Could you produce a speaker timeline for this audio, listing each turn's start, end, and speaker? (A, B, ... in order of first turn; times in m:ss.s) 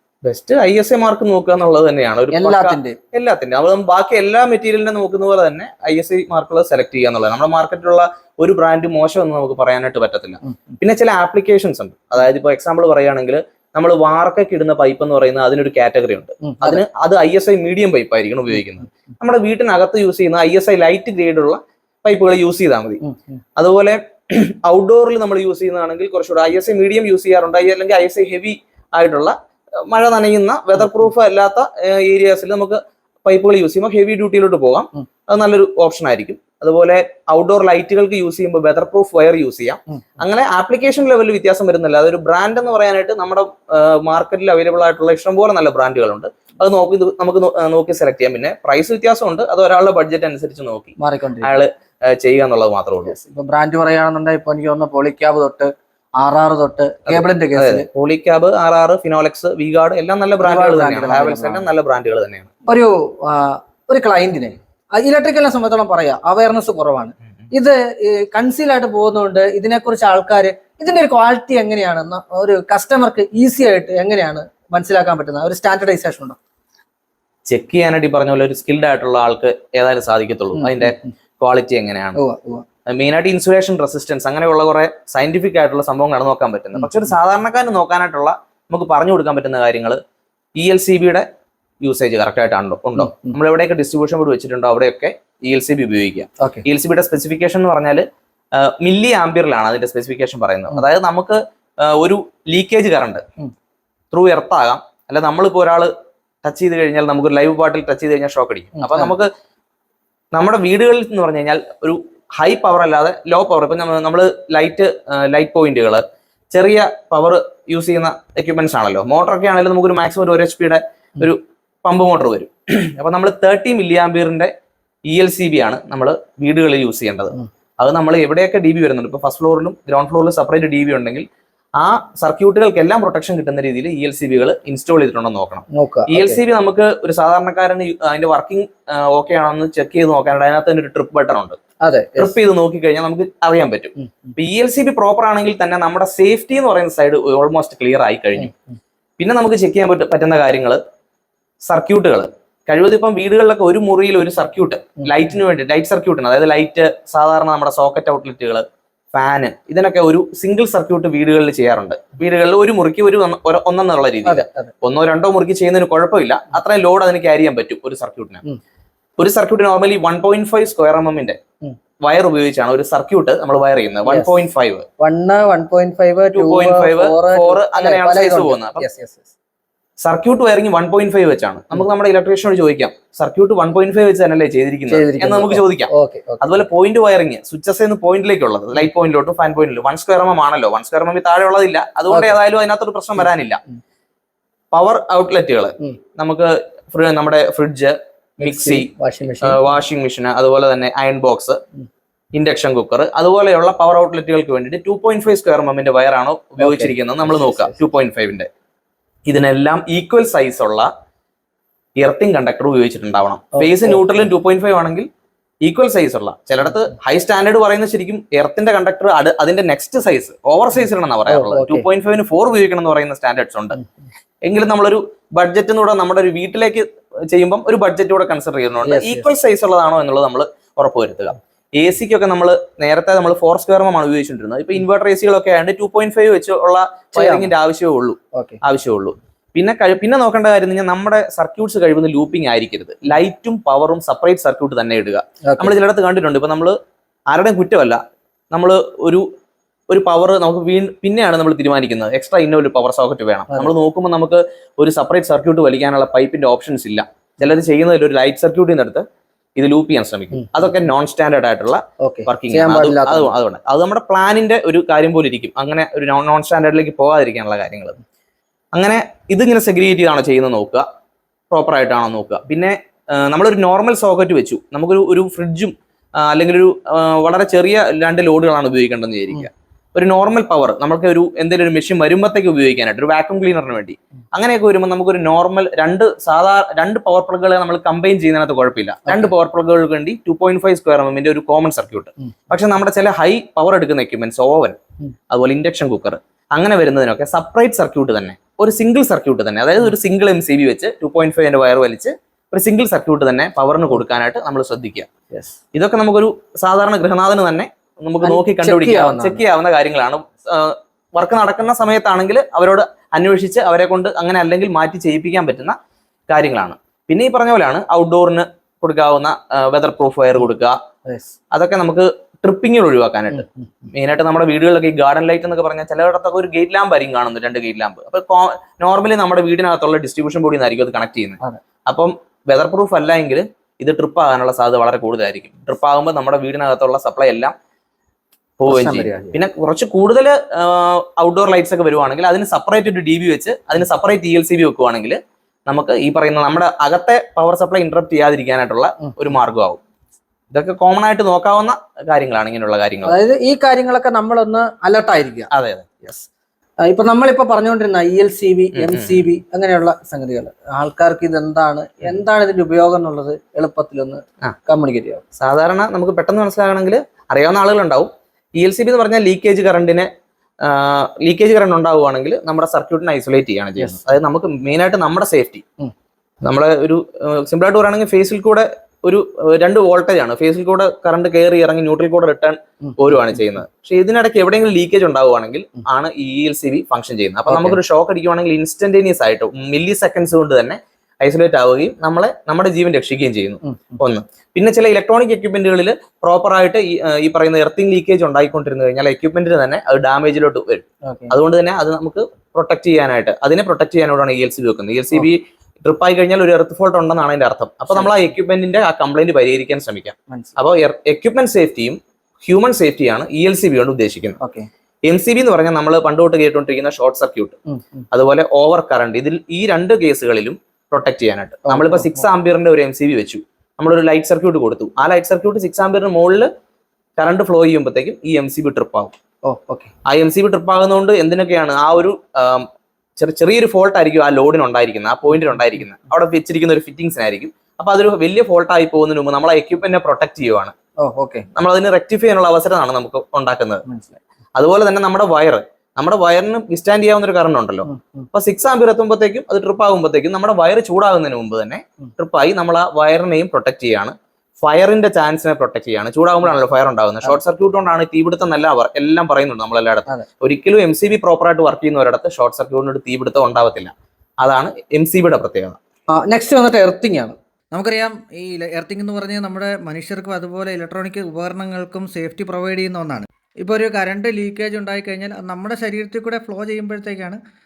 0:00.2-0:23.0 A
0:02.3-0:03.0 B
0:16.4-0:16.8 B
0:23.0-0:23.4 B
0:23.6-0:53.1 A
0:51.0-0:51.6 B
0:53.0-0:57.9 B
0:57.1-1:02.5 A
1:00.4-1:01.6 B
1:02.7-1:16.4 B
1:17.5-1:22.2 A
1:20.6-1:21.1 B
1:22.2-1:22.6 B
1:22.9-1:30.0 A
1:30.6-1:31.3 A
1:31.8-1:43.2 A
1:33.0-1:33.4 B
1:44.1-1:45.9 A
1:46.4-1:49.3 A
1:48.8-1:49.1 B
1:50.3-2:04.5 A
2:05.1-2:11.3 A
2:11.8-2:21.6 A
2:15.7-2:16.4 B
2:21.8-2:22.4 B
2:22.2-2:28.5 A
2:24.0-2:24.3 B
2:29.2-2:30.8 A
2:31.7-2:48.4 A
2:44.2-2:44.7 B
2:49.2-2:51.4 A
2:52.0-2:54.9 A
2:54.1-2:54.4 B
2:55.0-2:59.3 B
2:56.3-2:58.8 A
3:00.0-3:13.6 A
3:04.9-3:06.4 B
3:14.7-3:21.6 A
3:18.4-3:19.6 B
3:22.3-3:28.5 A
3:26.6-3:27.8 B
3:29.3-3:30.9 A
3:32.0-3:35.1 A
3:33.6-3:34.0 B
3:35.6-3:43.8 A
3:41.3-3:41.9 B
3:44.4-4:06.8 A
3:48.8-3:49.3 B
3:57.2-3:57.5 B
3:58.3-3:58.6 B
4:05.4-4:05.7 B
4:07.3-4:08.0 A
4:08.5-4:09.3 A
4:09.9-4:28.0 A
4:22.0-4:23.3 B
4:28.7-4:30.9 A
4:31.5-4:54.8 A
4:55.3-5:05.1 A
5:05.7-5:15.8 A
5:08.2-5:09.4 B
5:16.3-5:20.8 A
5:21.1-5:21.3 B
5:21.5-5:37.5 A
5:23.3-5:23.7 B
5:38.6-5:49.8 A
5:38.7-5:39.4 B
5:50.5-5:53.2 A
5:53.0-5:55.5 B
5:55.5-5:56.0 A
5:56.8-6:05.2 B
5:58.7-5:59.2 A
6:05.4-6:10.1 A
6:10.6-6:15.6 A
6:13.8-6:14.0 B
6:16.4-6:54.4 A
6:22.8-6:23.4 B
6:27.5-6:27.8 B
6:33.6-6:34.0 B
6:41.0-6:41.3 B
6:54.4-6:54.7 B
6:55.1-6:57.6 A
6:57.7-6:58.1 B
6:58.1-7:06.5 A
7:01.7-7:02.2 B
7:07.2-7:09.1 A
7:09.5-7:09.9 B
7:10.1-7:20.8 A
7:21.0-7:21.5 B
7:21.6-7:23.8 A
7:23.9-7:24.2 B
7:24.6-7:45.8 A
7:27.9-7:28.3 B
7:46.1-7:47.4 B
7:47.7-7:57.4 C